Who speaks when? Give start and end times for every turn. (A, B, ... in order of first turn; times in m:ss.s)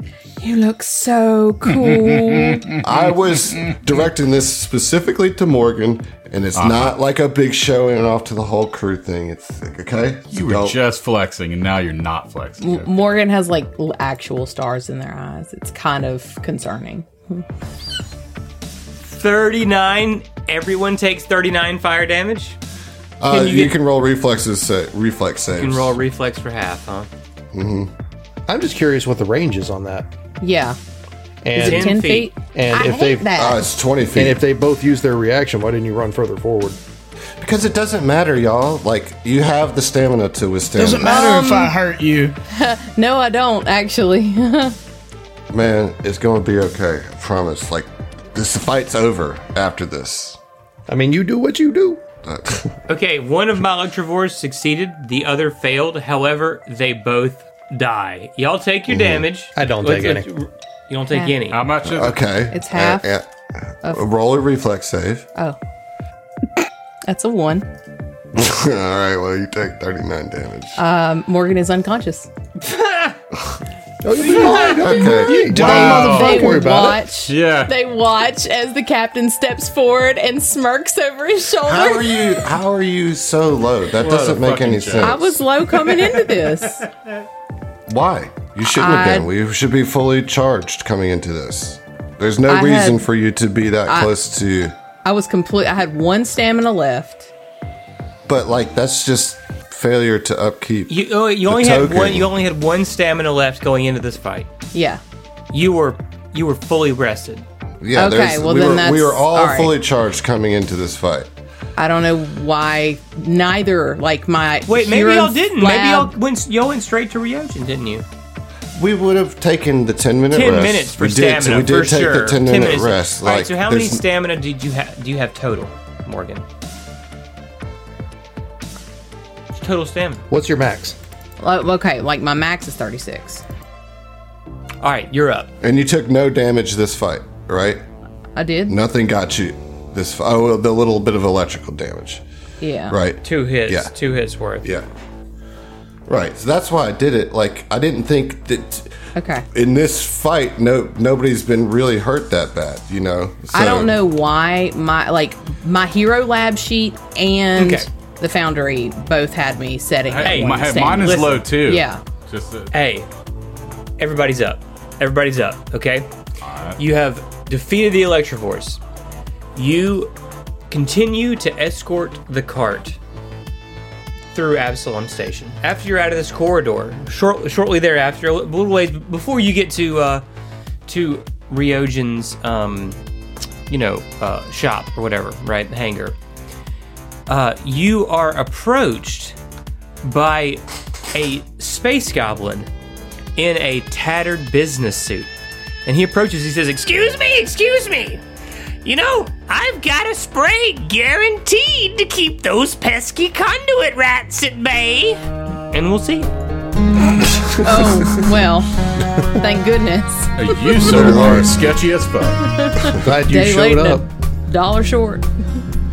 0:00.4-0:02.8 A
0:02.8-0:10.8 B
0:06.5-0:07.0 C
0:10.3-0:12.9 C
0:12.6-0:17.4 A
0:19.0-0:22.6 D
0:23.2-0:25.9 B
0:23.3-0:23.8 D
0:25.5-0:27.1 D
0:27.5-0:27.9 B
0:28.5-0:30.1 E
0:30.4-0:30.8 A
0:31.4-0:32.0 E
0:31.5-0:32.3 D
0:31.6-0:33.6 A
0:32.5-0:33.4 E
0:33.3-0:34.4 B
0:34.1-0:36.8 E
0:37.4-0:41.2 B
0:40.7-0:42.4 F
0:41.0-0:41.7 A
0:42.5-0:44.8 A
0:45.5-0:50.4 B
0:50.9-0:52.0 E
0:52.2-0:52.7 B
0:52.9-1:01.6 D
0:58.9-0:59.3 B
0:59.5-1:00.3 E
1:01.5-1:02.2 C
1:01.8-1:05.3 B
1:02.5-1:03.1 A
1:07.1-1:07.6 A
1:08.3-1:10.8 B
1:10.8-1:12.3 A
1:12.6-1:13.2 D
1:14.0-1:17.1 E
1:14.2-1:14.7 D
1:14.4-1:22.4 A
1:14.5-1:15.5 B
1:15.5-1:16.5 F
1:15.5-1:16.6 C
1:17.2-1:17.7 C
1:21.6-1:25.4 B
1:23.9-1:25.2 C
1:25.0-1:26.8 A
1:27.9-1:34.8 B
1:28.8-1:29.3 A
1:32.5-1:33.0 A
1:35.0-1:37.3 A
1:38.3-1:42.3 B
1:40.9-1:44.5 D
1:44.7-1:45.0 A
1:45.5-1:47.4 D
1:47.8-1:51.3 B
1:47.9-1:49.8 A
1:51.8-1:56.1 A
1:54.7-1:58.0 D
1:58.8-2:04.0 B
2:00.3-2:06.4 D
2:09.5-2:10.2 D
2:10.3-2:11.0 E
2:11.4-2:13.4 A
2:14.8-2:15.5 D
2:15.6-2:17.8 B
2:18.4-2:18.8 A
2:18.7-2:22.2 B
2:22.6-2:23.0 A
2:22.9-2:23.9 B
2:23.2-2:24.7 D
2:26.1-2:28.9 B
2:29.2-2:29.4 A
2:29.5-2:34.0 B
2:33.5-2:42.0 A
2:37.6-2:37.9 D
2:40.1-2:42.7 C
2:40.2-2:41.4 D
2:42.7-2:43.1 D
2:44.0-2:46.1 D
2:46.4-2:46.8 C
2:46.8-2:48.8 D
2:49.6-2:50.1 D
2:50.7-2:53.0 D
2:54.3-3:00.2 D
3:00.9-3:03.0 D
3:03.7-3:06.2 D
3:07.3-3:09.4 D
3:10.0-3:12.7 D
3:13.4-3:15.3 D
3:15.8-3:18.2 D
3:18.8-3:25.2 D
3:25.7-3:26.3 D
3:27.4-3:27.8 B
3:27.5-3:31.4 A
3:30.4-3:32.5 C
3:30.8-3:31.7 B
3:32.4-3:35.3 A
3:33.0-3:34.1 E